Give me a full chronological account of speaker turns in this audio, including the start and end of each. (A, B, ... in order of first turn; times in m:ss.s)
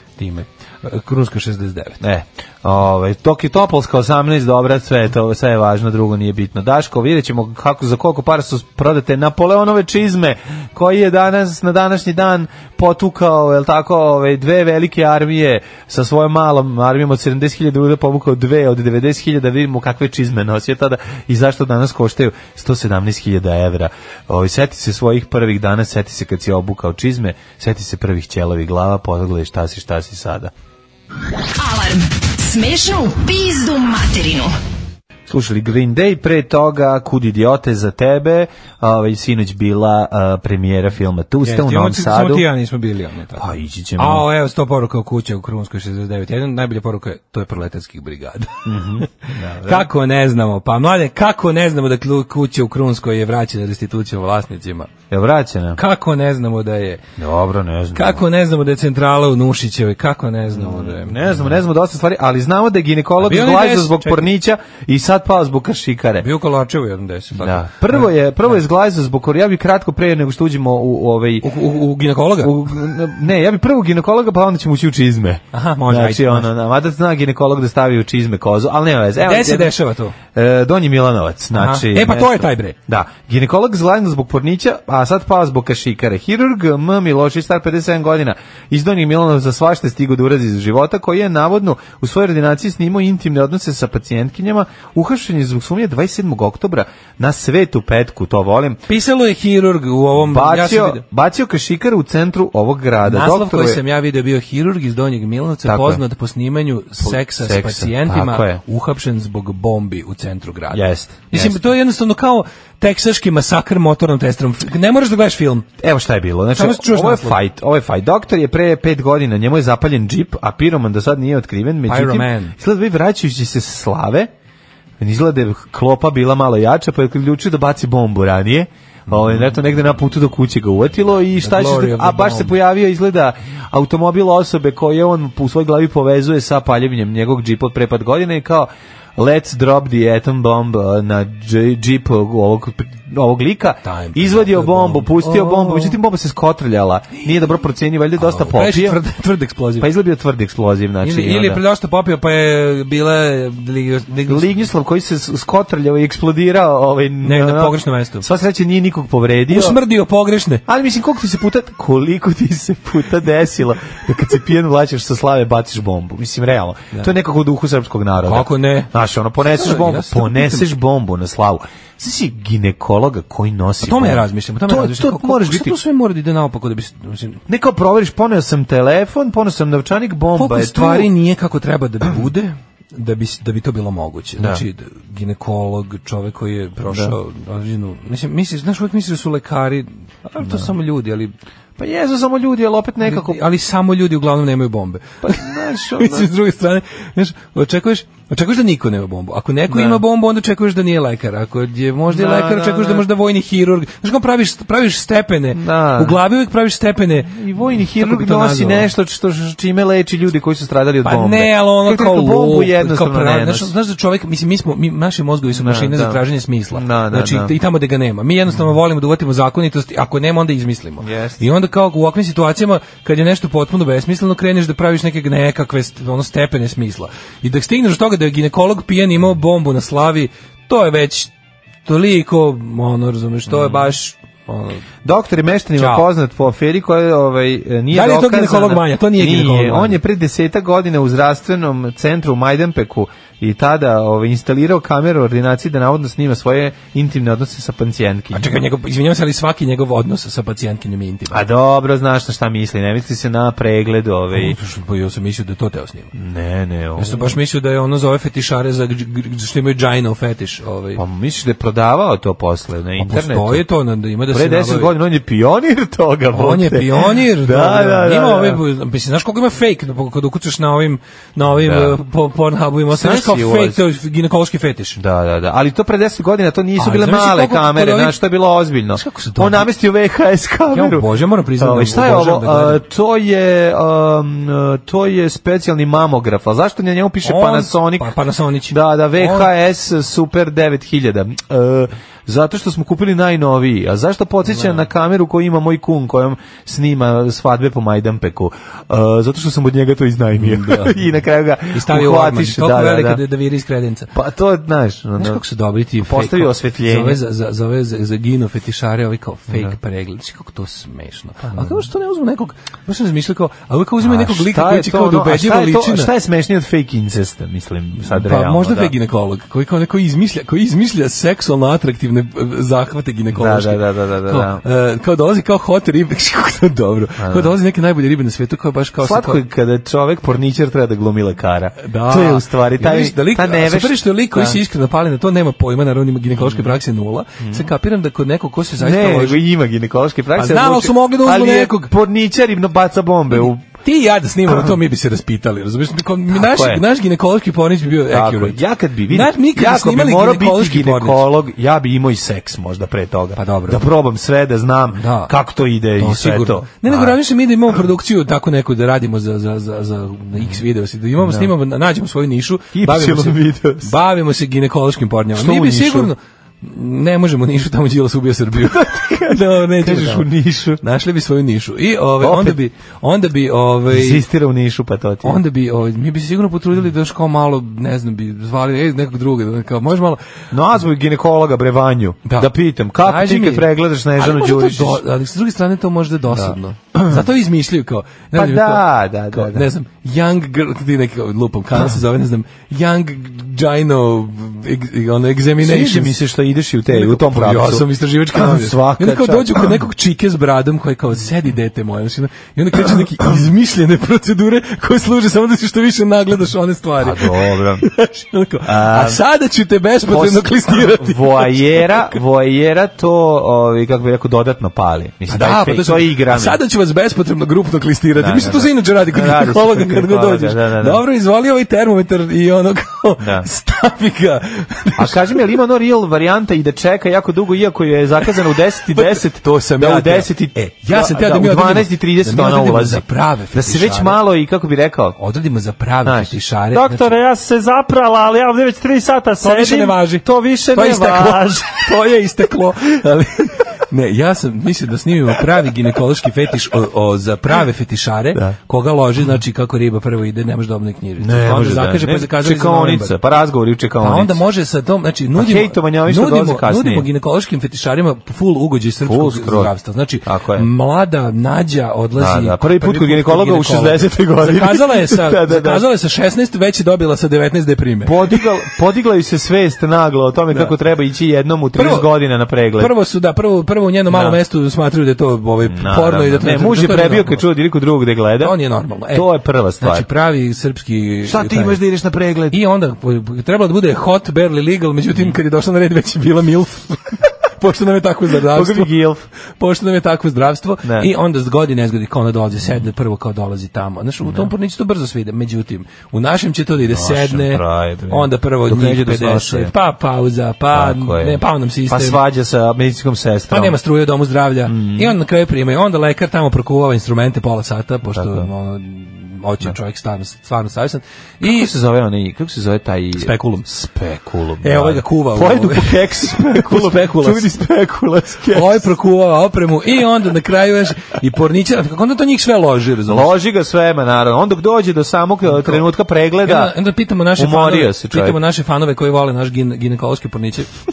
0:00.2-0:02.0 A
0:02.0-0:30.5 B
0:31.6-0:34.6 C
0:35.3-0:42.5 B
0:41.4-0:54.9 A
0:43.4-0:44.3 B
0:48.6-0:49.9 B
0:55.1-0:55.8 B
0:55.8-0:57.0 A
0:57.2-0:58.2 B
0:58.0-1:01.5 A
1:00.5-1:06.3 B
1:03.2-1:04.3 A
1:06.2-1:08.6 A
1:07.4-1:11.6 B
1:11.4-1:12.5 A
1:12.4-1:19.7 B
1:15.5-1:16.5 A
1:19.2-1:20.2 A
1:20.3-1:38.8 B
1:21.6-1:22.8 A
1:38.9-1:41.0 A
1:40.2-1:43.8 B
1:43.0-1:55.7 A
1:45.6-1:46.0 B
1:47.0-1:48.6 B
1:50.7-1:51.6 B
1:55.8-2:04.3 B
1:56.5-1:57.4 A
2:01.9-2:02.6 A
2:05.0-2:29.0 B
2:11.4-2:12.6 A
2:23.8-2:26.0 A
2:28.2-2:29.9 A
2:29.8-2:31.6 B
2:31.0-2:34.7 A
2:34.3-2:39.8 B
2:37.2-2:38.3 A
2:39.5-2:40.6 A
2:40.7-2:55.8 B
2:48.2-2:50.7 A
2:53.8-2:57.4 A
2:57.5-3:01.1 B
3:00.4-3:11.3 A
3:04.4-3:04.6 B
3:06.9-3:07.2 B
3:10.4-3:10.7 B
3:11.8-3:13.4 B
3:13.0-3:28.9 A
3:15.2-3:16.3 B
3:19.7-3:20.0 B
3:22.1-3:23.1 B
3:25.5-3:26.2 B
3:27.2-3:33.7 B
3:31.0-3:51.3 A
3:35.5-3:37.5 B
3:41.0-3:41.4 B
3:51.9-3:54.8 A
3:53.5-3:53.9 B
3:55.0-4:08.6 B
3:55.8-3:56.1 A
3:57.9-4:00.0 A
4:08.3-4:11.4 A
4:11.3-4:14.6 B
4:14.3-4:16.1 A
4:16.1-4:17.4 B
4:17.0-4:21.0 A
4:21.0-4:23.6 B
4:23.0-4:24.9 A
4:24.3-4:28.6 B
4:26.3-4:35.0 A
4:31.6-4:32.0 B
4:32.9-4:33.8 B
4:35.0-4:48.1 B
4:36.8-4:38.2 A
4:38.9-4:39.7 A
4:40.7-4:42.8 A
4:47.2-4:49.5 A
4:48.7-5:03.2 B
4:54.5-4:54.8 A
5:00.4-5:01.0 A
5:01.7-5:04.1 A
5:04.1-5:05.4 B
5:05.2-5:16.1 A
5:06.0-5:07.2 B
5:11.4-5:11.8 B
5:14.0-5:18.9 B
5:18.0-5:29.4 A
5:23.3-5:24.6 B
5:27.2-5:27.6 B
5:29.0-5:34.6 B
5:31.8-5:39.4 A
5:36.4-5:36.7 B
5:37.4-5:37.7 B
5:38.8-5:43.6 B
5:40.4-5:41.9 A
5:43.7-5:51.2 A
5:46.3-5:46.8 B
5:48.0-5:57.2 B
5:53.4-5:53.8 A
5:55.0-5:55.3 A
5:56.0-6:14.2 A
6:01.2-6:01.5 B
6:02.7-6:03.9 B
6:05.3-6:06.1 B
6:08.6-6:10.8 B
6:12.2-6:12.6 B
6:13.9-6:15.4 B
6:15.2-6:20.2 A
6:20.5-6:25.0 B
6:22.2-6:22.5 A
6:23.0-6:36.2 A
6:26.3-6:27.3 B
6:28.3-6:29.7 B
6:35.6-6:39.7 B
6:36.9-6:52.2 A
6:47.0-6:47.9 B
6:48.6-6:49.2 B
6:50.1-6:56.6 B
6:55.3-7:05.2 A
6:58.2-7:01.0 B
7:03.2-7:03.5 B
7:05.0-7:15.2 B
7:08.9-7:14.2 A
7:15.2-7:17.1 A
7:16.0-7:21.9 B
7:19.4-7:33.2 A
7:31.2-7:34.4 B
7:34.0-7:48.5 A
7:35.4-7:37.1 B
7:39.0-7:39.7 B
7:40.2-7:40.7 B
7:42.2-7:45.9 B
7:48.0-7:52.9 B
7:51.8-7:52.1 A
7:52.8-7:57.4 A
7:54.1-7:54.4 B
7:55.7-7:58.6 B
7:58.4-8:01.8 A
7:59.1-8:00.1 B
8:01.3-8:02.6 B
8:02.5-8:08.9 A
8:08.4-8:09.3 B
8:09.6-8:22.2 A
8:10.8-8:11.1 B
8:14.2-8:14.5 B
8:16.9-8:19.7 B
8:20.7-8:23.8 B
8:23.5-8:31.7 A
8:24.7-8:25.2 B
8:28.1-8:28.5 B
8:31.4-8:38.9 B
8:33.2-8:33.7 A
8:34.6-8:37.5 A
8:38.5-8:43.3 A
8:43.0-8:46.8 B
8:45.4-8:45.9 A
8:46.4-8:50.7 A
8:47.4-8:48.4 B